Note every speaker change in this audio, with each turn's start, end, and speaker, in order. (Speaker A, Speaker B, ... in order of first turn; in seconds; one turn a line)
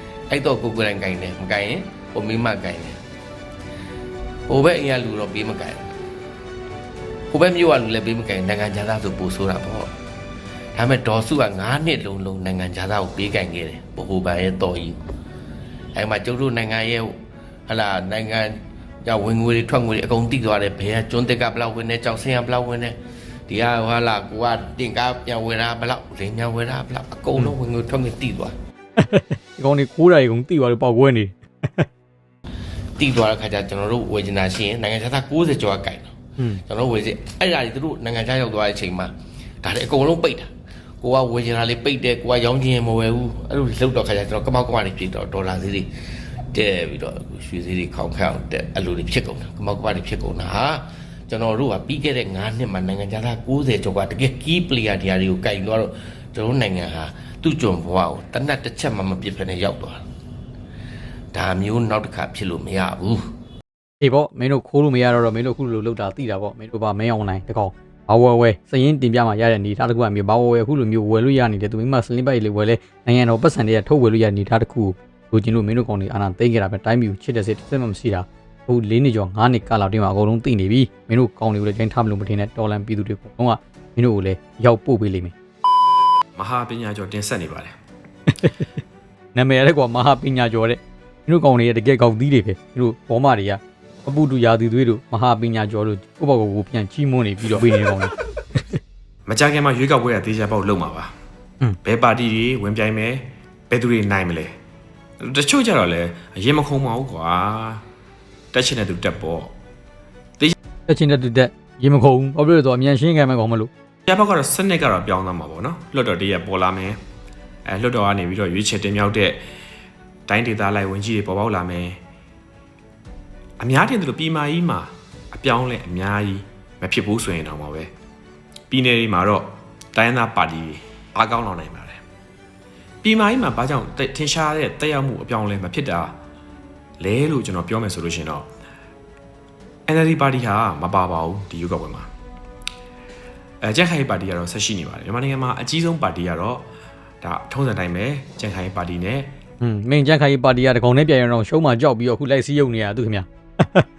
Speaker A: 0.3-3.0
Speaker A: 4.5-5.9
Speaker A: 7.3-9.9
Speaker A: 10.8-15.0
Speaker A: 15.9-17.1
Speaker A: 17.7-23.0
Speaker A: 23.5-28.5
Speaker B: 29.0-31.9
Speaker A: 33.0-45.9
Speaker A: 46.5-60.0
Speaker A: 61.3-63.3
Speaker B: 64.0-85.3
Speaker C: 86.4-87.8
Speaker B: 88.3-88.7
Speaker B: 89.3-98.8
Speaker C: 99.3-101.1
Speaker C: 101.8-104.6
Speaker C: 105.2-107.8
Speaker C: 108.5-109.5
Speaker B: 110.9-113.7
Speaker C: 114.1-117.0
Speaker C: 117.7-119.4
Speaker C: 120.3-122.0
Speaker C: 123.6-127.9
Speaker C: 128.7-132.0
Speaker C: 133.0-136.2
Speaker C: 137.0-138.5
Speaker C: 139.9-142.1
Speaker C: 143.6-146.7
Speaker C: 147.2-149.3
Speaker B: 149.6-153.9